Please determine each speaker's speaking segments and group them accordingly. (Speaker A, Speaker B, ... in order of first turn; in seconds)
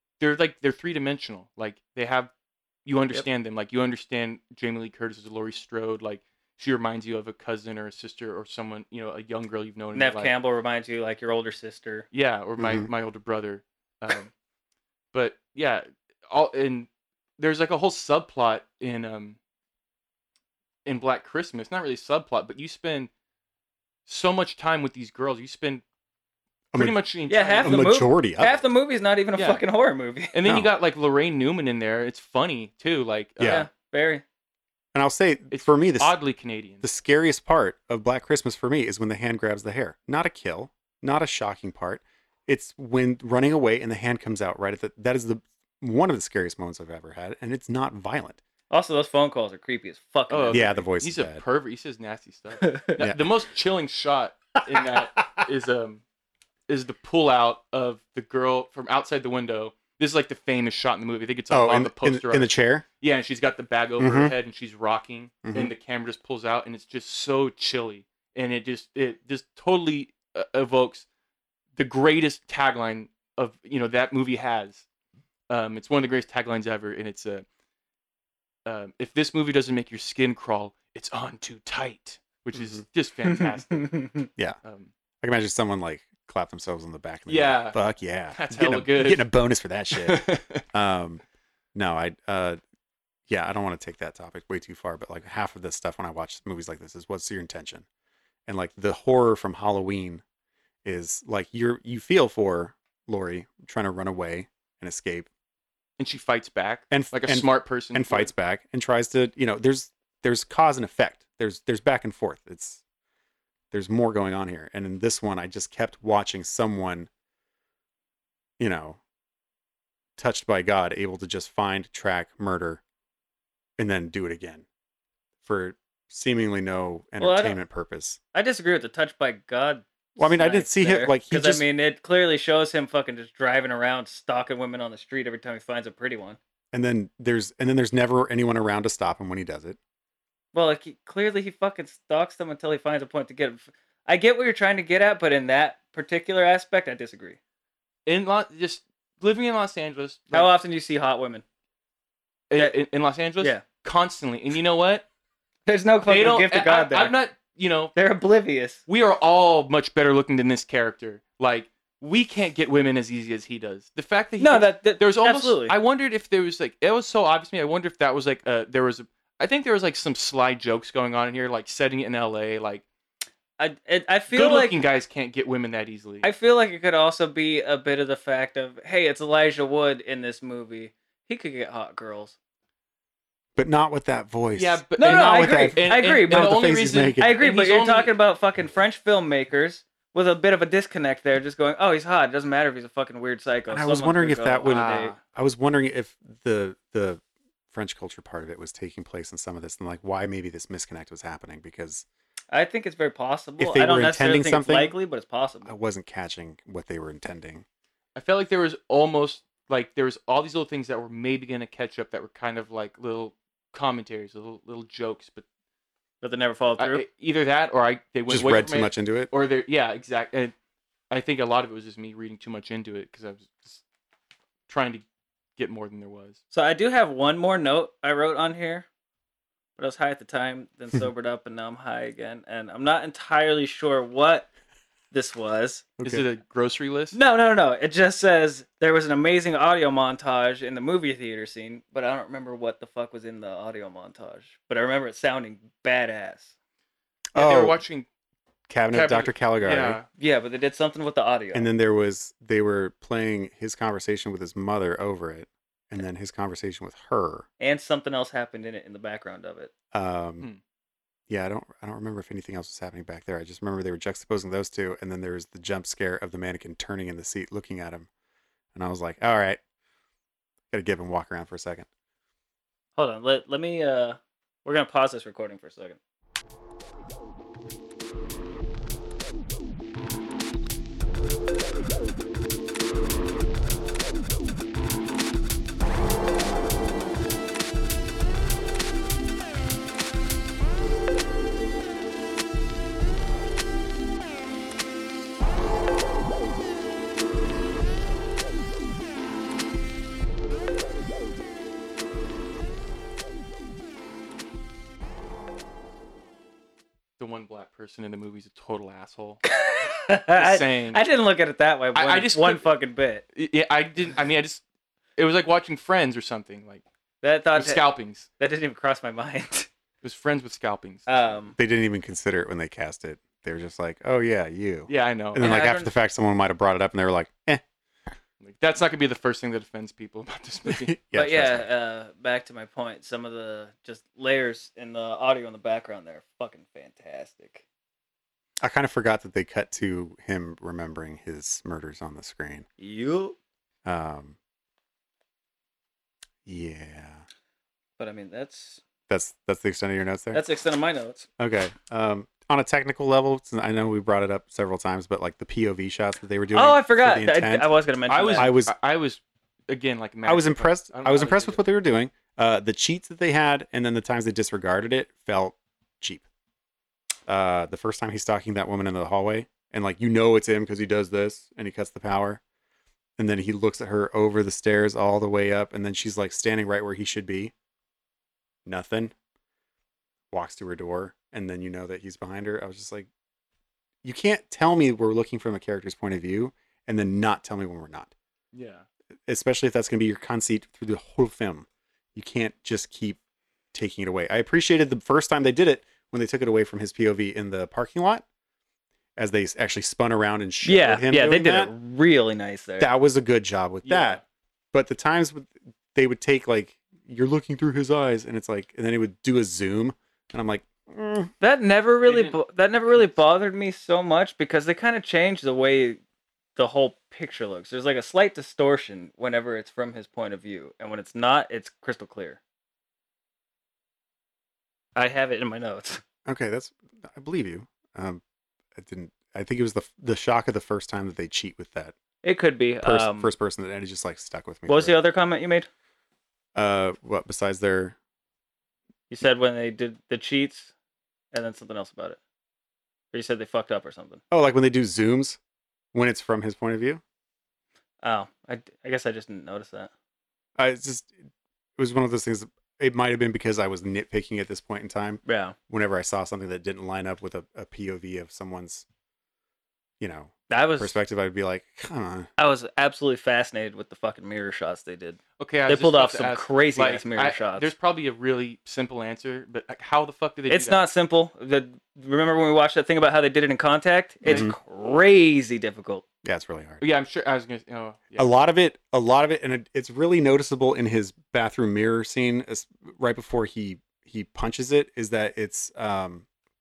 Speaker A: 0.2-2.3, 2.8-10.3, 12.1-14.3, 15.1-16.9, 17.4-19.4, 20.8-23.1, 24.1-25.8, 26.7-27.9, 29.4-29.6, 30.3-33.7, 35.5-36.9, 50.3-56.0, 56.7-71.0, 71.8-74.8, 75.5-77.4, 78.7-84.9, 87.3-87.8, 88.3-89.2, 89.9-90.6, 106.0-108.3, 148.0-150.5, 152.5-155.0, 156.1-157.9, 158.9-172.8, 174.3-176.3, 184.6-188.1, 194.7-195.2, 208.1-215.4, 216.8-220.5, 221.1-223.8, 224.7-225.0, 225.6-226.4, 236.0-237.2, 247.3-248.1, 248.9-250.1, 307.2-309.4, 310.3-311.0, 311.9-312.7, 313.3-314.6, 315.2-316.8, 317.5-318.3, 320.0-321.1, 324.9-325.5, 328.4-330.9, 358.1-361.6, 388.5-388.9, 403.8-404.2, 412.1-412.4, 465.4-470.9, 476.8-478.3
Speaker B: 9.9-12.1, 27.3-30.4, 33.5-34.2, 48.7-50.8, 52.6-53.0, 83.3-84.2, 127.2-127.6, 128.3-136.4, 140.5-147.4, 150.3-151.4, 155.7-157.1, 157.9-158.8, 164.4-165.7, 173.6-174.8, 176.2-182.3, 185.0-186.6, 187.2-195.2, 202.5-205.7, 216.2-217.0, 226.5-228.9, 229.8-234.5, 235.1-235.9, 237.1-246.5, 250.1-251.7, 257.6-259.7, 273.0-276.0, 309.4-313.2, 317.2-317.8, 318.4-319.7, 321.1-321.6, 325.4-325.9, 331.1-337.6, 342.8-343.4, 348.0-348.8, 350.3-351.3, 356.5-358.5, 400.6-402.9, 411.4-416.0, 416.6-422.4, 424.9-426.0, 432.2-433.3, 434.7-435.7, 439.1-440.7, 441.3-442.2, 443.1-444.2, 448.0-449.9, 455.2-455.6, 460.5-461.0, 462.4-467.7, 470.5-476.0
Speaker C: 12.6-12.9, 26.7-27.0, 27.6-28.6, 33.4-33.7, 34.9-36.1, 36.8-48.4, 50.5-51.4, 53.0-53.2, 61.5-62.9, 64.0-64.3, 65.4-65.7, 85.2-91.2, 91.7-92.6, 93.3-97.8, 98.5-100.2, 100.8-105.3, 106.9-112.8, 113.7-117.1, 118.6-119.0, 120.2-122.8, 123.8-124.7, 125.4-128.2, 130.2-131.6, 136.7-139.8, 183.6-187.3, 193.7-197.2, 197.7-202.1, 203.6-204.9, 205.6-207.6, 218.3-219.3, 236.0-236.2, 247.3-247.8, 248.7-250.0, 251.5-257.4, 259.9-260.5, 261.3-268.1, 268.7-269.6, 270.7-271.9, 321.6-327.6, 330.6-331.7, 338.6-342.7, 343.9-344.4, 346.4-347.2, 349.1-350.4, 351.4-357.7, 358.4-358.7, 360.2-366.2, 367.3-372.4, 373.2-377.5, 378.6-379.1, 380.3-383.1, 384.0-388.1, 389.3-393.2, 393.7-398.2, 399.2-401.7, 402.8-404.2, 404.7-411.3, 426.2-428.2, 428.7-431.9, 432.8-434.9, 436.5-437.9, 444.3-445.4, 445.9-447.0, 450.6-451.2, 451.8-458.9, 460.0-462.3, 474.2-474.6, 476.2-476.8, 478.2-486.2